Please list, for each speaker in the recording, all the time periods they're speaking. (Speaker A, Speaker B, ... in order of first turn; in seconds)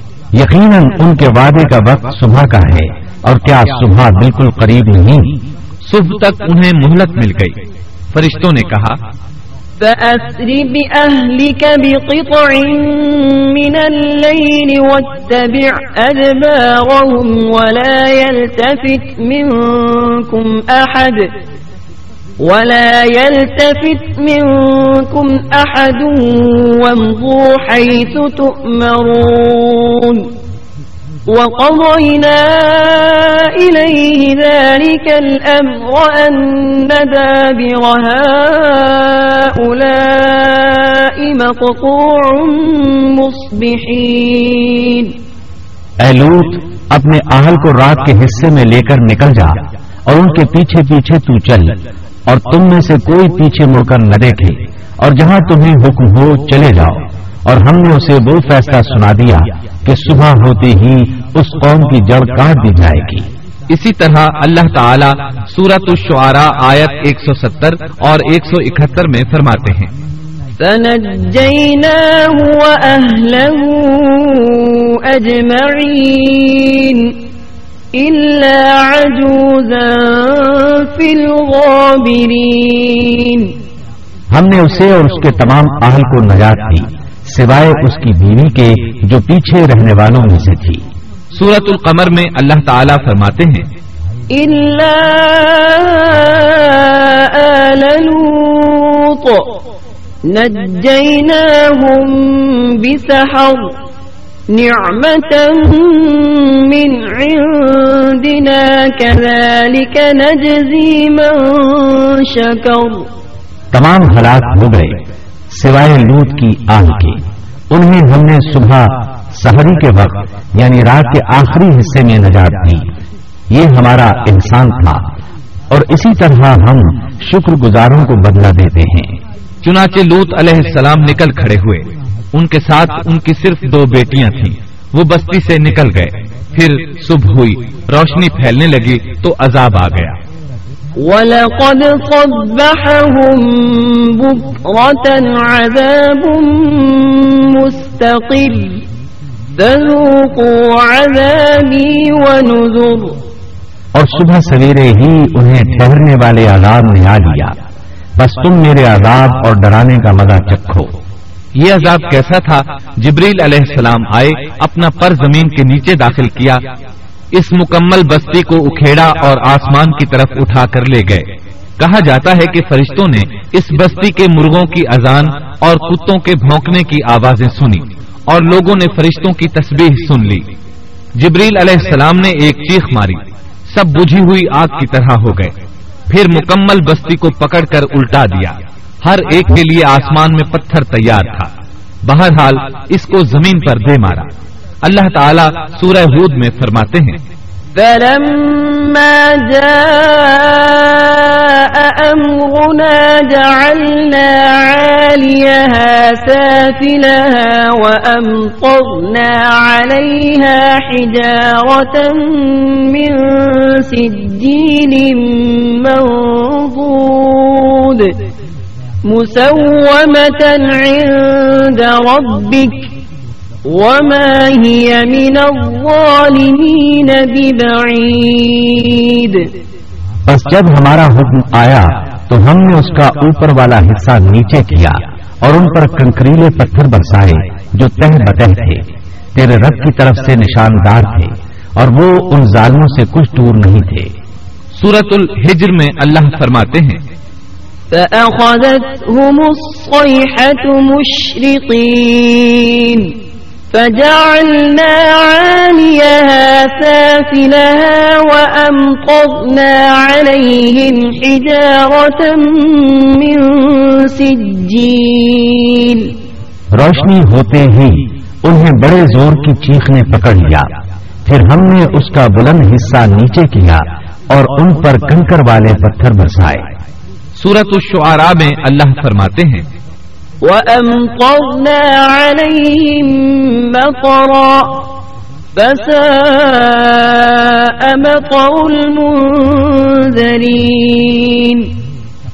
Speaker A: 0.3-5.4, 46.0-63.3, 84.3-90.8, 113.7-115.0, 115.5-122.9, 123.5-125.0, 125.7-129.2, 153.9-157.5, 158.2-160.9, 230.3-238.8, 239.3-244.1, 266.7-270.7, 271.2-276.6
Speaker B: 5.8-7.6, 8.1-9.0, 63.7-69.9, 91.3-93.7, 129.6-140.2, 161.6-166.6, 167.3-171.3, 171.8-180.5, 181.2-185.5, 186.1-191.5, 192.0-194.3, 194.8-197.2, 244.7-247.0, 277.4-279.6
Speaker C: 9.8-21.3, 22.4-30.3, 31.3-45.1, 70.6-77.2, 77.9-83.5, 94.3-99.5, 100.3-103.7, 104.5-113.1, 141.0-148.8, 149.6-153.2, 197.7-218.2, 219.1-222.9, 223.7-229.5, 247.9-253.1, 253.7-266.1, 280.4-284.9, 285.5-291.7